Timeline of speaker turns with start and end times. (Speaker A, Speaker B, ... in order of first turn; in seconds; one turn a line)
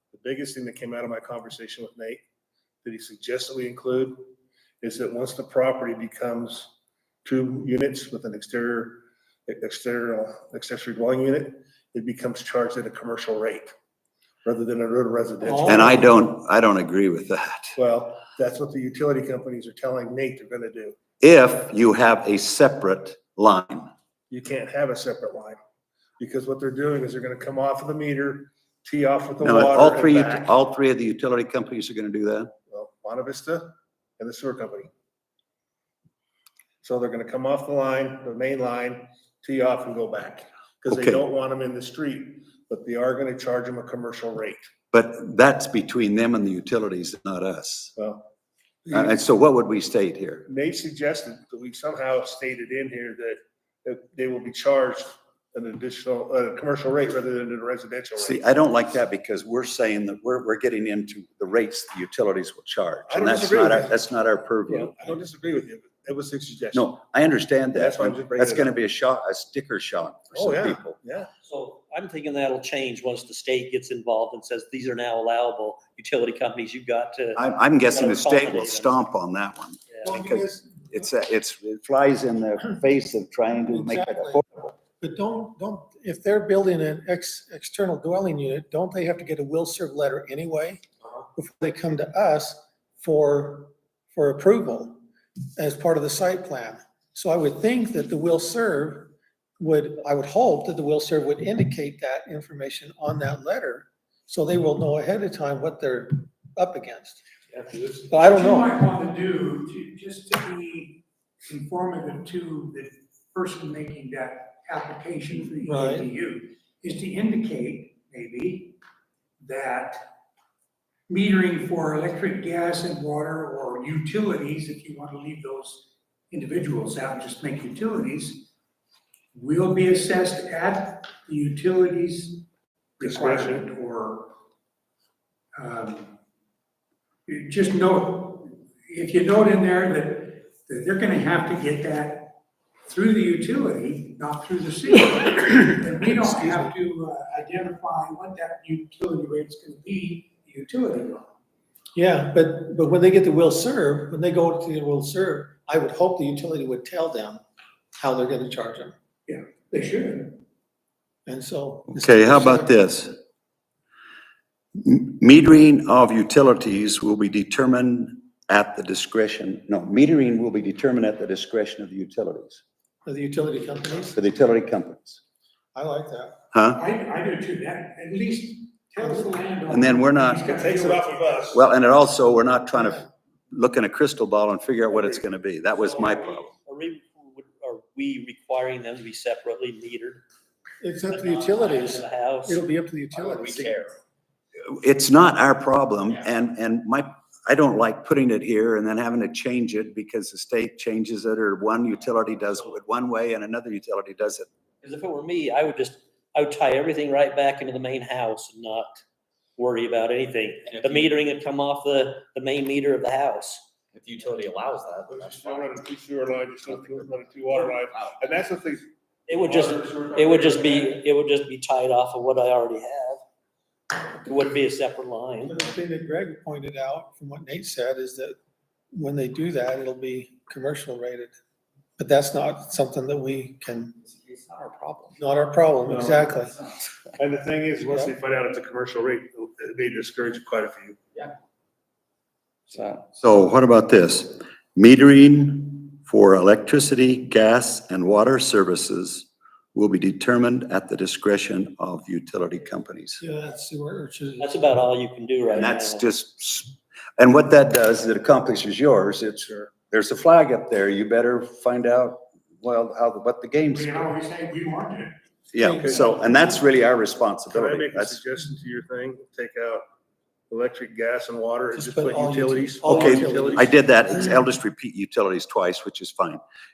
Speaker A: 0.1-2.2
Speaker A: 2.8-4.3
Speaker A: 4.8-6.7
Speaker A: 7.2-13.7
Speaker A: 14.4-16.0
Speaker B: 15.4-16.1
Speaker C: 15.6-17.8
Speaker A: 17.8-21.0
Speaker C: 21.2-23.9
Speaker A: 24.3-25.6
Speaker A: 26.2-30.5
Speaker C: 29.4-32.5
Speaker A: 32.7-34.9
Speaker A: 36.8-44.7
Speaker C: 40.9-41.2
Speaker C: 44.9-47.9
Speaker A: 48.0-48.3
Speaker A: 48.9-49.2
Speaker C: 48.9-50.5
Speaker A: 50.5-58.4
Speaker C: 58.2-65.0
Speaker A: 63.1-63.9
Speaker A: 64.7-66.9
Speaker C: 66.7-71.0
Speaker A: 67.7-68.8
Speaker A: 70.3-71.3
Speaker D: 71.4-79.0
Speaker C: 77.4-84.7
Speaker B: 80.0-80.7
Speaker B: 83.7-90.8
Speaker B: 91.4-95.0
Speaker B: 95.6-107.2
Speaker A: 107.5-108.1
Speaker B: 108.1-108.8
Speaker E: 108.1-118.8
Speaker B: 115.6-116.1
Speaker E: 119.4-120.0
Speaker E: 121.1-128.5
Speaker E: 129.3-132.5
Speaker E: 133.0-134.3
Speaker A: 133.0-133.7
Speaker E: 135.6-136.2
Speaker E: 137.3-151.3
Speaker B: 146.2-146.7
Speaker B: 151.9-157.4
Speaker B: 157.9-158.9
Speaker E: 159.3-160.4
Speaker B: 161.3-162.7
Speaker C: 161.9-163.2
Speaker C: 164.8-172.6
Speaker B: 173.1-174.2
Speaker C: 174.1-175.2
Speaker B: 175.7-176.4
Speaker C: 176.5-176.8
Speaker E: 176.7-181.5
Speaker C: 179.7-180.6
Speaker A: 180.5-181.7
Speaker C: 181.5-186.5
Speaker B: 182.8-183.1
Speaker D: 186.6-190.2
Speaker B: 190.8-193.9
Speaker D: 191.1-192.6
Speaker C: 193.3-193.6
Speaker C: 194.7-204.5
Speaker D: 204.8-209.0
Speaker D: 209.6-213.7
Speaker F: 210.7-211.0
Speaker F: 213.9-215.7
Speaker A: 215.1-220.9
Speaker F: 217.9-218.3
Speaker D: 219.3-223.2
Speaker D: 223.9-225.6
Speaker B: 225.4-228.4
Speaker B: 228.9-231.3
Speaker B: 232.0-234.0
Speaker F: 234.2-235.2
Speaker B: 235.1-236.6
Speaker A: 235.9-236.3
Speaker A: 237.2-241.0
Speaker F: 242.7-243.1
Speaker C: 243.2-253.2
Speaker B: 253.2-254.5
Speaker D: 254.4-256.0
Speaker C: 255.6-264.1
Speaker E: 263.7-265.2
Speaker C: 265.5-268.2
Speaker B: 265.6-266.5
Speaker A: 267.5-269.9
Speaker A: 270.5-273.7
Speaker B: 271.7-273.7
Speaker C: 272.9-276.4